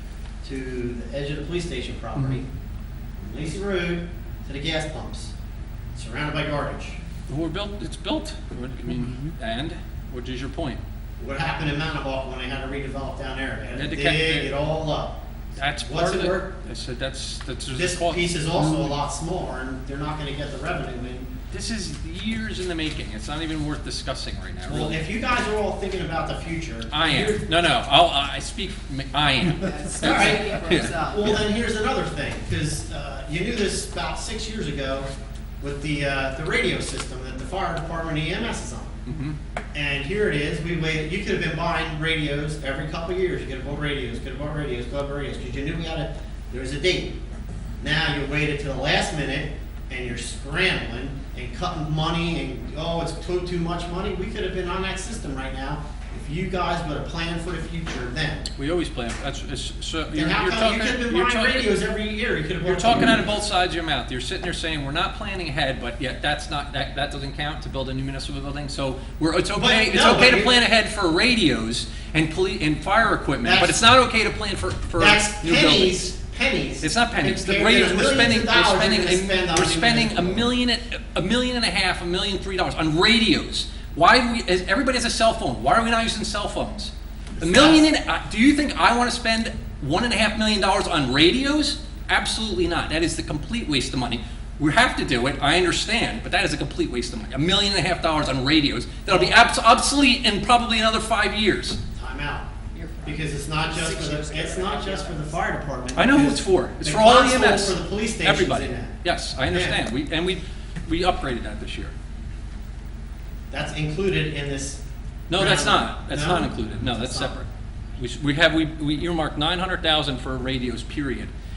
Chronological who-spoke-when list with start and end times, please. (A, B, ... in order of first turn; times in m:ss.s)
0:00.4-0:02.4 A
0:03.2-0:05.3 A
0:05.9-0:07.0 A
0:07.3-0:10.8 B
0:11.2-0:15.2 A
0:13.8-0:14.5 B
0:15.6-0:18.5 B
0:15.8-0:16.6 A
0:17.7-0:21.3 A
0:21.5-0:25.0 B
0:24.6-0:27.5 A
0:26.9-0:31.4 B
0:29.5-0:31.4 C
0:30.0-0:35.1 A
0:35.6-0:39.0 A
0:39.0-0:39.4 B
0:39.7-0:47.2 A
0:47.8-0:58.5 A
0:58.6-1:01.8 B
1:00.1-1:03.2 A
1:02.6-1:16.0 B
1:09.5-1:10.6 A
1:13.4-1:13.8 A
1:15.0-1:20.5 A
1:16.8-1:41.8 B
1:27.4-1:27.8 A
1:39.1-1:39.4 A
1:41.9-1:42.5 A
1:42.7-1:45.3 C
1:43.0-1:49.8 A
1:45.9-1:51.9 B
1:53.5-1:57.4 A
1:55.3-1:57.4 B
1:58.0-2:01.3 B